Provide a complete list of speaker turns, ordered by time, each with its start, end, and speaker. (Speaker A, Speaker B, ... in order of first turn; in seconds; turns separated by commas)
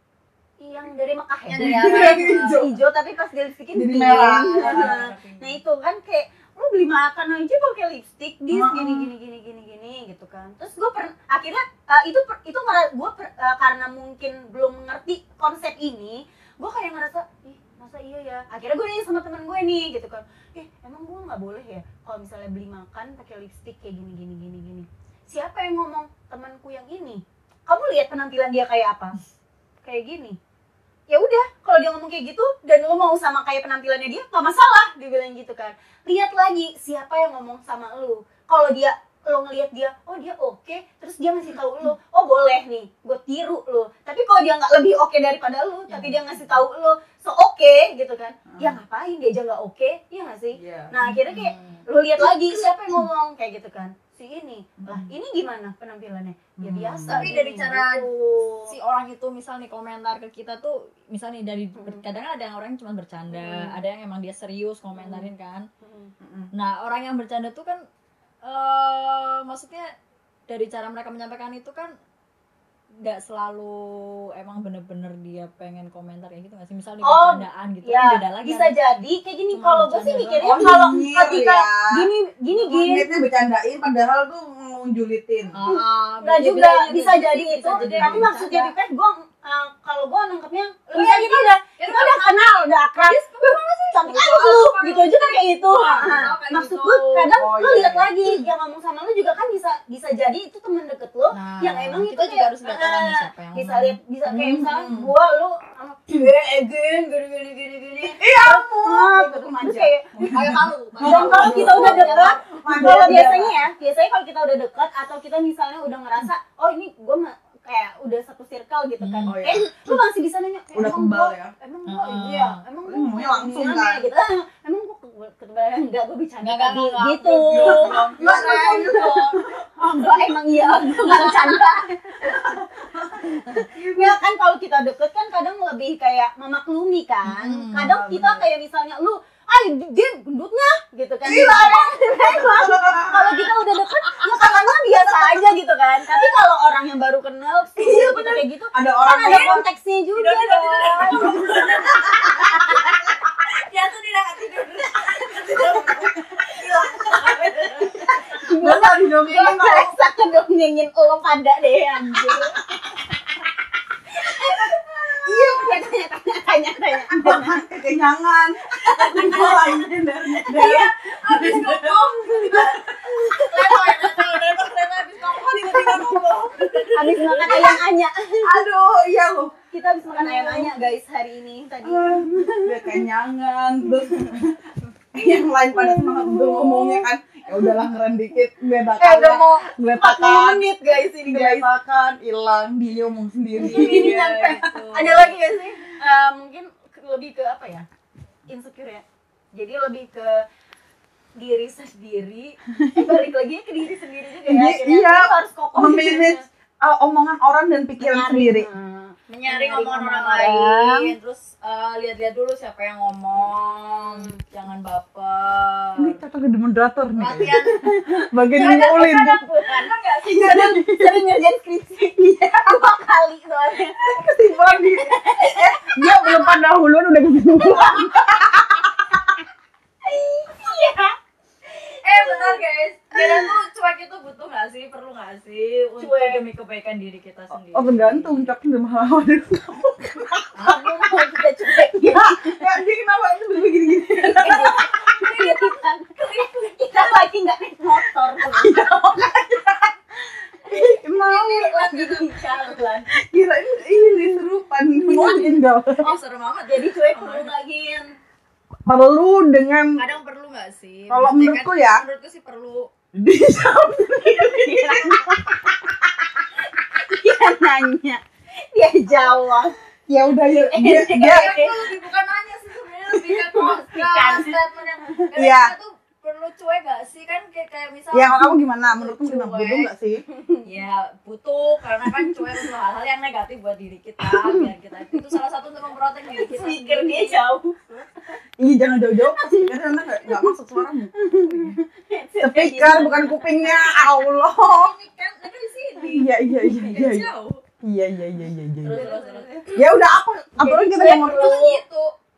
Speaker A: 0.6-29.1, Speaker B: 1.5-2.7, Speaker C: 1.5-2.8, Speaker C: 3.7-5.0, Speaker B: 4.2-5.6, Speaker C: 8.5-9.1, Speaker A: 29.8-30.4, Speaker A: 31.1-58.8, Speaker B: 45.9-46.6, Speaker C: 48.5-48.8, Speaker C: 50.6-51.0, Speaker B: 51.0-51.8, Speaker C: 54.8-55.1, Speaker C: 56.6-57.4, Speaker B: 57.1-58.1, Speaker B: 58.7-65.7, Speaker A: 61.8-62.0, Speaker A: 63.3-63.8, Speaker A: 65.0-65.3, Speaker A: 65.8-66.1, Speaker C: 66.2-66.5, Speaker B: 66.5-67.8, Speaker B: 68.4-69.9, Speaker B: 70.5-71.9, Speaker B: 73.0-78.8, Speaker A: 77.0-83.1, Speaker B: 79.5-80.6, Speaker C: 80.4-85.5, Speaker B: 85.5-88.7, Speaker A: 85.7-93.2, Speaker C: 87.7-88.3, Speaker B: 90.9-97.3, Speaker A: 93.9-110.1, Speaker C: 97.4-98.2, Speaker B: 101.3-104.0, Speaker C: 104.3-105.1, Speaker C: 108.2-113.6, Speaker B: 110.2-113.5, Speaker A: 111.0-132.6, Speaker B: 119.0-119.6, Speaker C: 119.3-119.7, Speaker C: 120.7-121.5, Speaker B: 121.9-122.6, Speaker C: 122.9-124.1, Speaker B: 126.4-129.3, Speaker C: 127.5-131.4, Speaker C: 132.2-134.2, Speaker A: 133.5-153.0, Speaker C: 137.4-138.5, Speaker C: 141.2-143.5, Speaker C: 147.8-149.7, Speaker B: 149.2-149.6, Speaker B: 150.2-158.4, Speaker C: 151.1-151.9, Speaker A: 157.0-163.0, Speaker C: 158.5-160.0, Speaker C: 162.1-162.4, Speaker A: 164.2-167.6, Speaker C: 165.2-165.9, Speaker C: 167.1-177.8, Speaker A: 168.8-169.8, Speaker B: 169.3-169.8, Speaker A: 170.3-170.9, Speaker B: 170.5-177.8, Speaker A: 172.2-172.5, Speaker A: 173.5-173.8, Speaker A: 176.9-178.5, Speaker C: 178.4-179.6, Speaker A: 179.7-183.1, Speaker C: 180.1-180.7, Speaker C: 181.8-184.6, Speaker C: 185.1-190.7, Speaker A: 185.2-187.7, Speaker A: 189.0-191.7, Speaker C: 191.3-194.8, Speaker A: 193.6-197.9, Speaker B: 193.6-195.4, Speaker A: 198.5-200.4, Speaker A: 201.4-206.5, Speaker C: 202.8-203.2, Speaker C: 204.5-208.7, Speaker A: 208.0-211.1, Speaker B: 209.3-216.2, Speaker A: 213.4-214.4, Speaker C: 216.0-219.4, Speaker B: 217.2-217.9, Speaker A: 217.5-226.6, Speaker B: 218.6-220.5, Speaker C: 220.3-221.2, Speaker C: 222.5-222.7, Speaker C: 224.0-229.3, Speaker A: 227.5-228.5, Speaker A: 230.0-231.2, Speaker A: 232.0-232.6, Speaker B: 232.0-238.5, Speaker A: 233.1-233.5, Speaker A: 236.0-236.4, Speaker C: 237.7-240.8, Speaker B: 240.6-240.8, Speaker A: 240.6-242.7, Speaker C: 242.0-245.4, Speaker A: 244.2-249.2, Speaker C: 248.4-249.9, Speaker C: 250.7-252.0, Speaker A: 250.7-253.1, Speaker B: 251.5-252.4, Speaker C: 253.1-256.2, Speaker A: 254.9-255.5, Speaker B: 255.1-257.5, Speaker A: 256.6-258.1, Speaker C: 258.9-260.1, Speaker B: 260.0-262.9, Speaker C: 261.1-262.0, Speaker C: 263.1-265.6, Speaker A: 264.3-265.6, Speaker A: 266.8-269.8, Speaker C: 270.1-271.6, Speaker A: 270.7-271.8, Speaker B: 270.9-279.9, Speaker A: 273.3-274.6, Speaker C: 275.4-275.7, Speaker C: 278.1-280.2, Speaker A: 280.3-280.6, Speaker B: 280.6-287.4, Speaker A: 284.2-285.2, Speaker A: 286.3-288.0, Speaker C: 288.6-291.8, Speaker A: 289.2-290.5, Speaker A: 291.2-293.7, Speaker C: 292.4-294.9, Speaker B: 293.6-297.6, Speaker C: 296.1-297.3, Speaker C: 297.8-299.0, Speaker B: 298.8-299.9, Speaker A: 298.9-299.8, Speaker C: 299.7-301.6, Speaker A: 300.6-301.8, Speaker B: 300.9-302.1